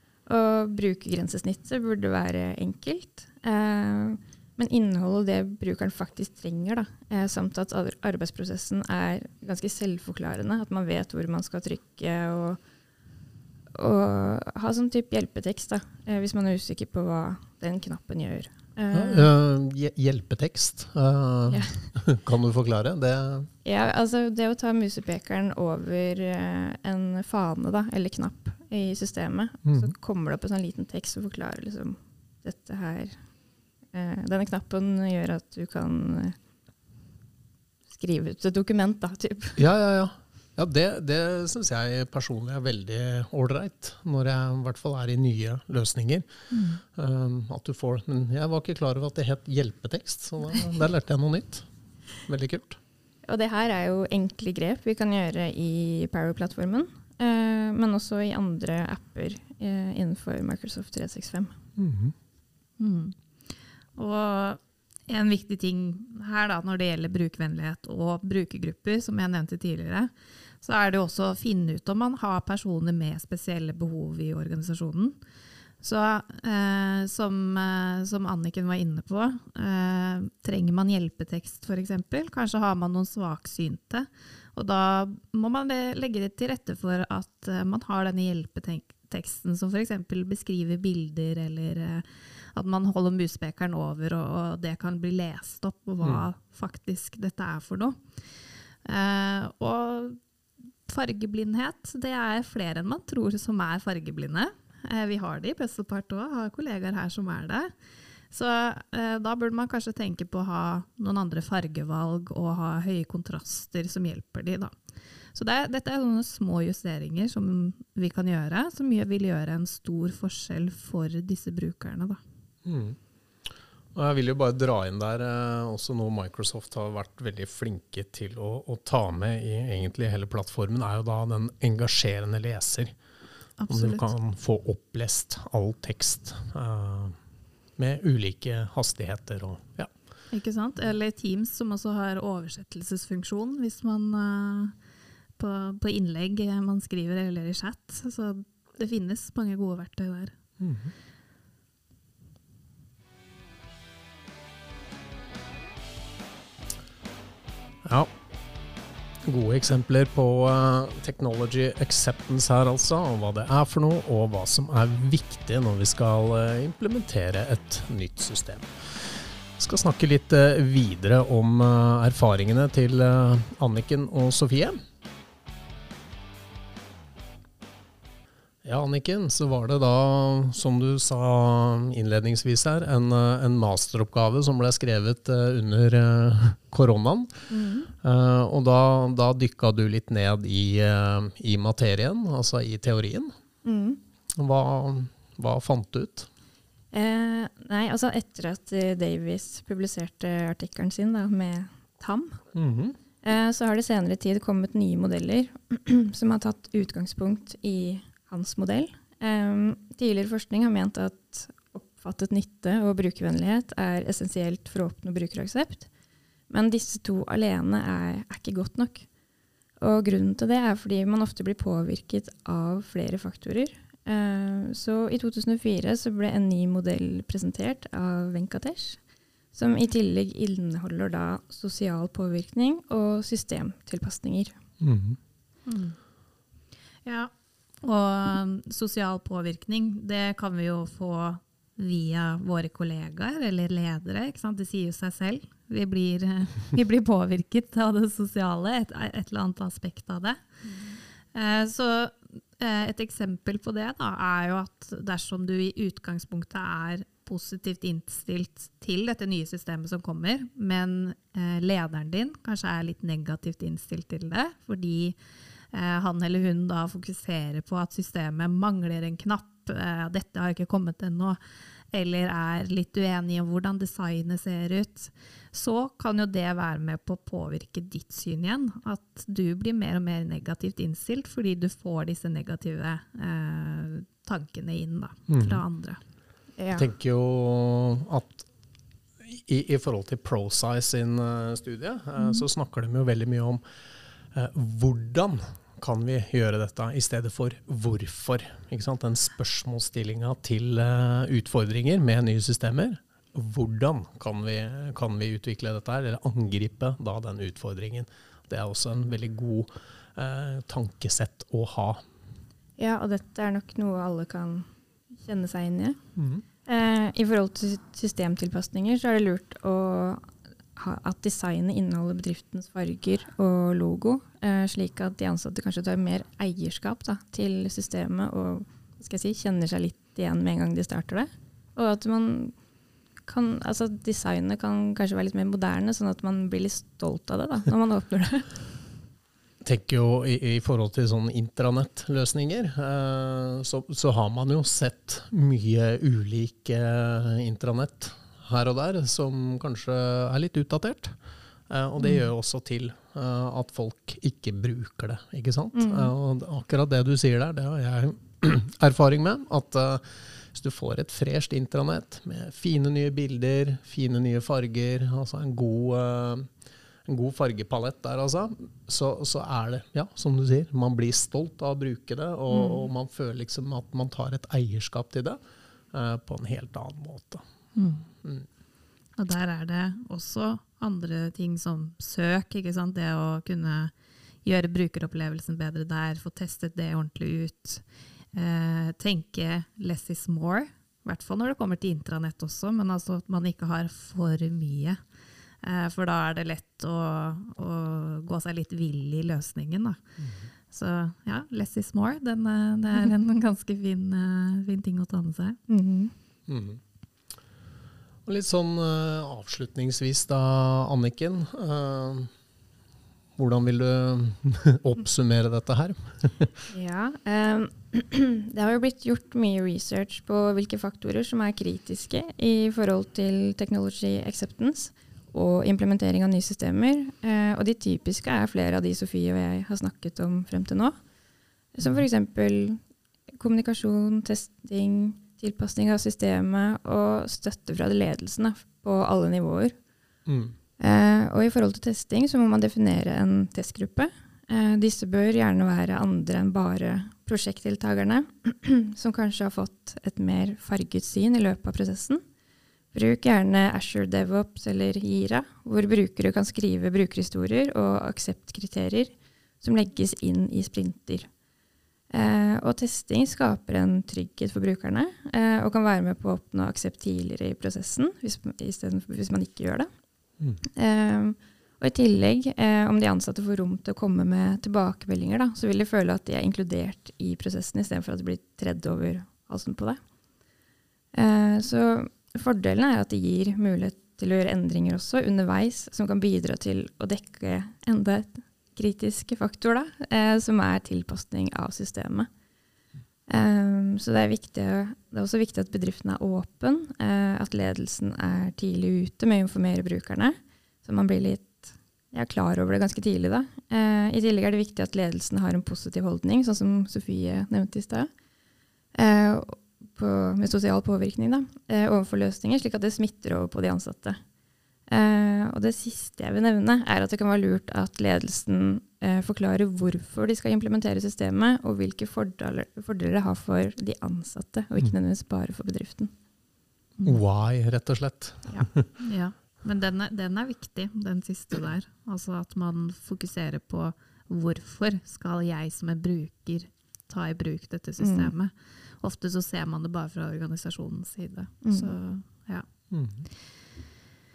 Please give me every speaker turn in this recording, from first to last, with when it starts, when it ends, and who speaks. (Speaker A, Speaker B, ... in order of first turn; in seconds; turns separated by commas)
Speaker A: 0.3-12.6, Speaker A: 13.7-19.3, Speaker B: 18.9-23.5, Speaker A: 21.5-21.8, Speaker A: 23.6-33.2, Speaker B: 29.6-29.9, Speaker A: 33.9-36.4, Speaker A: 37.9-39.6, Speaker B: 39.6-46.2, Speaker C: 46.5-46.8, Speaker B: 46.9-51.6, Speaker B: 52.2-52.8, Speaker A: 53.3-61.5, Speaker B: 61.8-62.1, Speaker C: 62.8-63.2, Speaker C: 64.0-75.2, Speaker C: 75.8-98.0, Speaker C: 98.8-100.2, Speaker C: 100.9-107.7, Speaker C: 108.3-114.7, Speaker C: 115.3-122.2, Speaker B: 122.6-123.0, Speaker B: 123.9-132.9, Speaker C: 133.6-134.1, Speaker B: 133.7-137.2, Speaker B: 137.8-139.9, Speaker C: 140.3-144.8, Speaker C: 145.4-150.3, Speaker B: 150.6-150.9, Speaker B: 157.8-158.1, Speaker B: 159.2-174.8, Speaker B: 178.6-187.3, Speaker A: 187.5-187.9, Speaker B: 187.9-193.3, Speaker A: 193.6-194.0, Speaker B: 194.3-196.3, Speaker A: 196.9-202.4, Speaker B: 202.5-202.9, Speaker A: 203.2-215.9, Speaker A: 216.5-219.1, Speaker A: 219.8-229.0, Speaker A: 229.5-234.5, Speaker B: 234.8-235.2, Speaker C: 235.7-236.0, Speaker C: 237.0-250.6, Speaker C: 251.3-265.2, Speaker C: 265.7-271.4, Speaker C: 271.9-286.0, Speaker B: 285.3-285.6, Speaker A: 286.6-286.9, Speaker B: 286.8-288.5, Speaker B: 289.2-293.6, Speaker A: 292.2-292.4, Speaker B: 294.3-312.0, Speaker A: 312.8-316.0, Speaker B: 316.2-316.4, Speaker A: 316.6-332.6, Speaker A: 333.3-338.5, Speaker B: 339.6-351.1, Speaker B: 351.7-366.5, Speaker A: 355.7-356.1, Speaker B: 367.0-375.4, Speaker A: 372.5-372.8, Speaker B: 375.9-377.4, Speaker C: 377.7-378.0, Speaker C: 379.1-383.9, Speaker C: 384.4-395.0, Speaker C: 395.6-400.0, Speaker B: 400.2-400.5, Speaker C: 400.7-405.6, Speaker A: 405.7-406.1, Speaker B: 406.5-406.8, Speaker B: 408.2-412.3, Speaker B: 413.4-416.6, Speaker A: 416.7-430.9, Speaker A: 431.7-432.8, Speaker A: 433.4-439.8, Speaker B: 440.2-440.5, Speaker A: 440.8-452.2, Speaker A: 452.9-461.3, Speaker A: 462.1-469.9, Speaker A: 470.7-480.0, Speaker A: 481.1-492.3, Speaker A: 493.3-508.1, Speaker A: 508.9-514.2, Speaker A: 514.9-526.1, Speaker B: 527.0-528.9, Speaker C: 529.0-542.6, Speaker A: 538.0-538.3, Speaker A: 541.6-541.9, Speaker B: 542.9-543.3